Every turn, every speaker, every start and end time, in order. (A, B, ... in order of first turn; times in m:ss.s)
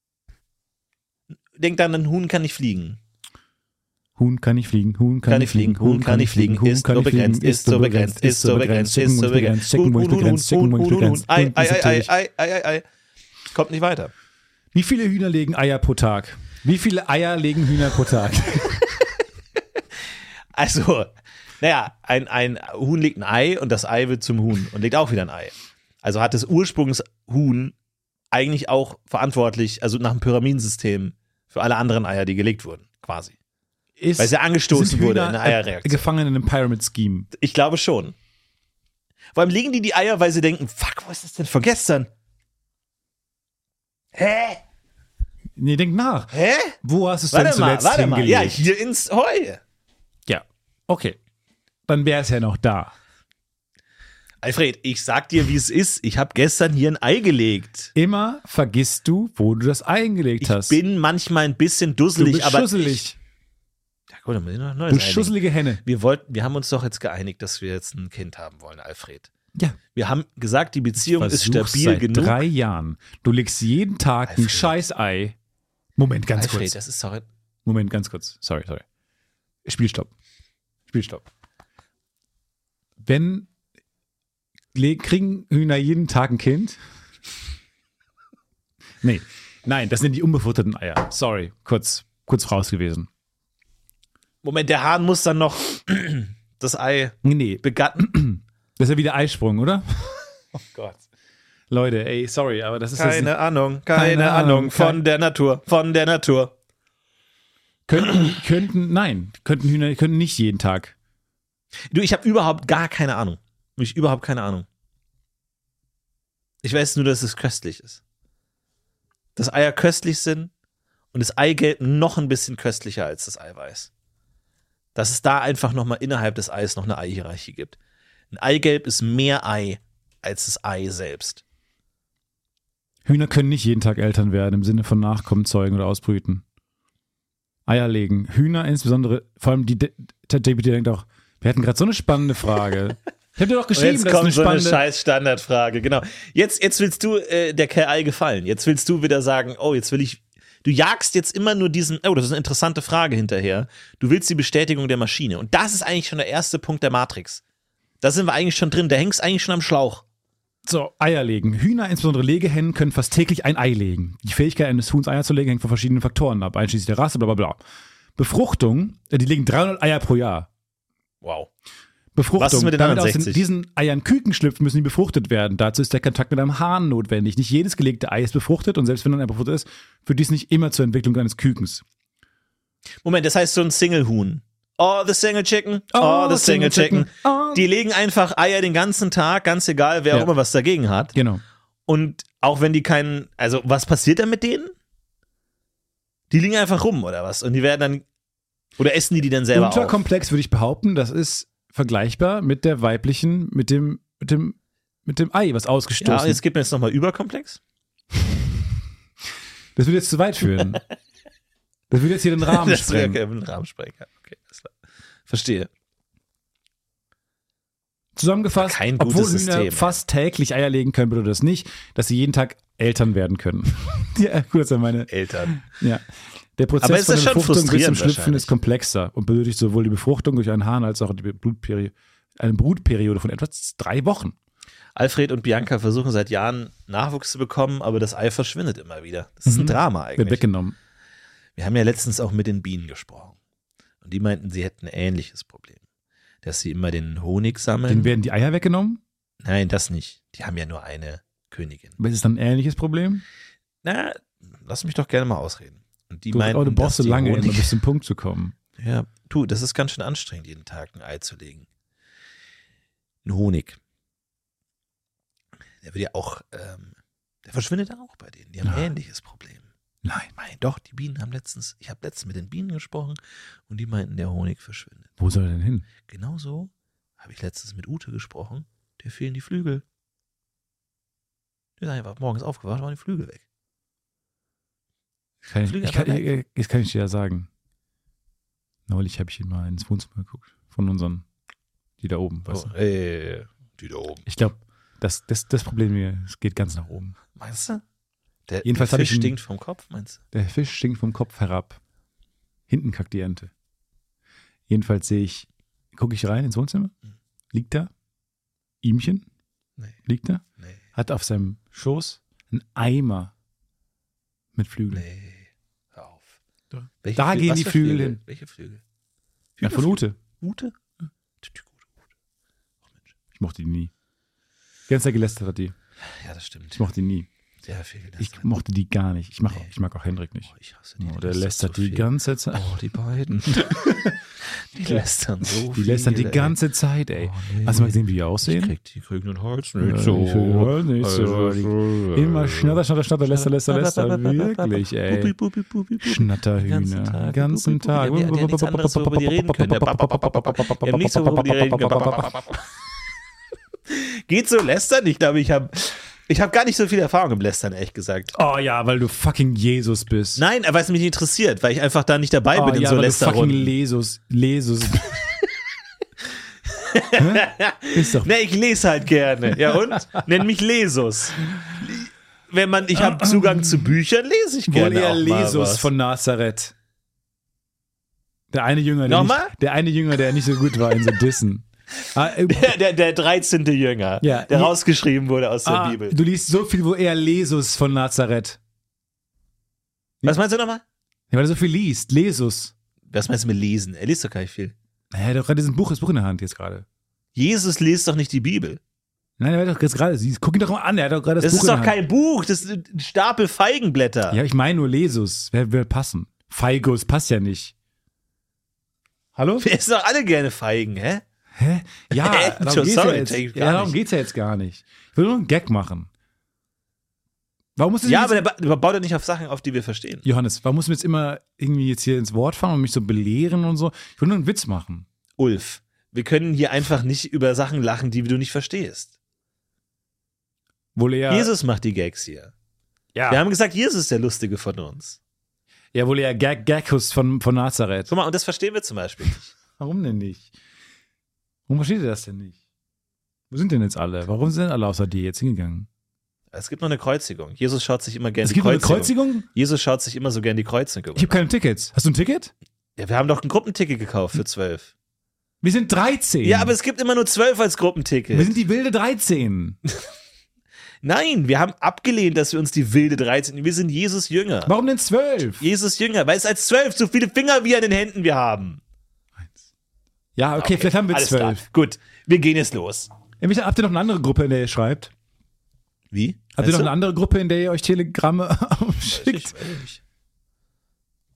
0:01.6-0:03.0 A
0:04.2-0:12.1 B
0:05.3-0:12.8 A
0:13.5-0:14.1 A
0:14.7-0:18.9 B
0:20.5-0:27.8 A
0:28.3-0:33.4 A
0:34.0-0:37.3 B
0:34.2-0:36.0 A
0:37.3-0:38.2 A
0:39.3-0:42.1 A
0:44.2-0:44.6 A
0:45.6-0:48.7 B
0:46.3-0:46.8 A
0:47.3-0:49.6 A
0:50.3-0:51.2 B
0:51.9-0:52.9 B
0:54.4-0:57.9 A
0:58.0-1:00.8 B
1:00.4-1:03.0 A
1:02.2-1:03.2 B
1:04.1-1:09.3 A
1:04.9-1:05.8 B
1:09.9-1:12.4 A
1:11.0-1:15.4 B
1:14.3-1:14.7 A
1:16.0-1:16.8 B
1:16.4-1:17.3 A
1:17.6-1:18.8 B
1:19.7-1:20.1 B
1:20.9-1:21.3 B
1:23.0-1:23.5 B
1:24.7-1:26.8 B
1:29.0-1:33.1 B
1:34.4-1:38.1 A
1:37.2-1:41.0 B
1:41.7-1:43.3 B
1:43.0-1:46.5 A
1:43.9-1:45.0 B
1:47.9-1:51.0 B
1:51.9-1:54.7 A
1:56.6-1:58.0 A
1:59.4-2:00.5 A
2:01.1-2:03.9 A
2:05.0-2:07.8 A
2:08.3-2:11.4 A
2:13.0-2:16.4 B
2:17.7-2:24.8 B
2:23.7-2:37.4 A
2:38.0-2:40.0 A
2:40.6-2:47.6 B
2:48.2-2:50.5 B
2:51.2-2:51.5 A
2:52.2-3:01.8 B
2:52.4-2:53.4 A
3:03.0-3:11.1 A
3:05.9-3:07.7 B
3:11.1-3:11.4 B
3:11.9-3:14.7 A
3:16.3-3:18.0 A
3:18.8-3:20.0 A
3:19.5-3:26.4 B
3:26.0-3:27.6 A
3:29.8-3:30.8 B
3:31.9-3:33.2 B
3:32.4-3:34.7 A
3:35.3-3:35.7 A
3:38.2-3:46.0 B
3:38.6-3:40.0 A
3:45.1-3:45.6 A
3:46.6-3:54.4 B
3:46.8-3:48.5 A
3:55.0-4:00.4 A
3:59.5-4:00.8 B
4:01.6-4:03.4 A
4:04.0-4:05.8 A
4:06.4-4:08.1 A
4:07.9-4:09.0 B
4:09.4-4:12.0 A
4:12.0-4:13.2 B
4:13.8-4:17.8 A
4:16.3-4:18.6 B
4:18.8-4:21.7 A
4:23.2-4:23.8 A
4:25.8-4:29.7 A
4:28.6-4:28.9 B
4:30.0-4:30.3 B
4:30.4-4:35.1 A
4:35.2-4:35.9 B
4:36.1-4:39.8 A
4:41.8-4:43.4 A
4:45.4-4:47.5 B
4:45.6-4:46.3 A
4:48.9-4:51.2 B
4:52.0-4:52.7 B
4:52.5-4:54.2 A
4:54.3-4:57.2 B
4:57.4-4:57.8 A
4:58.5-5:00.2 A
4:58.6-4:59.4 B
5:00.3-5:01.8 B
5:02.7-5:03.5 B
5:04.7-5:06.9 B
5:07.5-5:07.9 B
5:08.8-5:09.3 B
5:10.0-5:13.3 B
5:14.6-5:15.1 B
5:14.9-5:16.4 A
5:16.7-5:18.2 B
5:17.0-5:18.8 A
5:19.6-5:20.7 A
5:19.6-5:20.2 B
5:21.4-5:21.8 A
5:23.4-5:23.9 B
5:24.9-5:25.8 B
5:26.1-5:26.8 A
5:26.7-5:27.3 B
5:27.6-5:28.5 A
5:28.2-5:32.7 B
5:30.5-5:36.6 A
5:33.5-5:34.2 B
5:35.7-5:38.7 B
5:37.2-5:42.8 A
5:39.8-5:45.4 B
5:43.3-5:52.6 A
5:46.0-5:52.4 B
5:53.9-5:58.4 A
5:58.3-6:00.4 B
6:00.4-6:03.7 A
6:02.5-6:05.3 B
6:06.7-6:15.9 A
6:07.2-6:08.3 B
6:13.0-6:13.8 B
6:14.7-6:16.7 B
6:18.5-6:22.7 B
6:19.1-6:19.5 A
6:22.5-6:26.2 A
6:24.2-6:24.7 B
6:25.6-6:28.6 B
6:30.2-6:30.8 A
6:31.3-6:32.7 B
6:33.1-6:34.7 A
6:35.1-6:36.8 B
6:37.4-6:38.8 A
6:39.4-6:42.0 B
6:41.4-6:44.4 A
6:44.3-6:47.7 B
6:49.4-6:49.7 B
6:49.6-6:51.2 A
6:51.6-6:56.1 B
6:52.1-6:54.0 A
6:57.8-6:58.4 B
6:58.0-7:00.2 A
7:00.2-7:05.1 B
7:05.4-7:09.1 A
7:11.0-7:11.5 B
7:11.3-7:12.5 A
7:13.2-7:13.4 B
7:13.3-7:15.2 A
7:15.9-7:18.1 B
7:18.1-7:19.5 A
7:19.8-7:20.5 B
7:21.7-7:22.6 B
7:23.5-7:25.9 B
7:26.5-7:31.4 A
7:28.4-7:29.5 B
7:31.2-7:32.5 B
7:33.0-7:34.9 A
7:35.6-7:36.7 B
7:36.4-7:38.6 A
7:38.3-7:39.8 B
7:41.0-7:44.7 A
7:44.6-7:45.6 B
7:45.6-7:48.8 A
7:50.4-7:51.6 B
7:50.6-7:53.1 A
7:53.4-7:55.1 B
7:56.1-7:56.9 A
7:56.6-7:59.8 B
7:59.1-8:00.0 A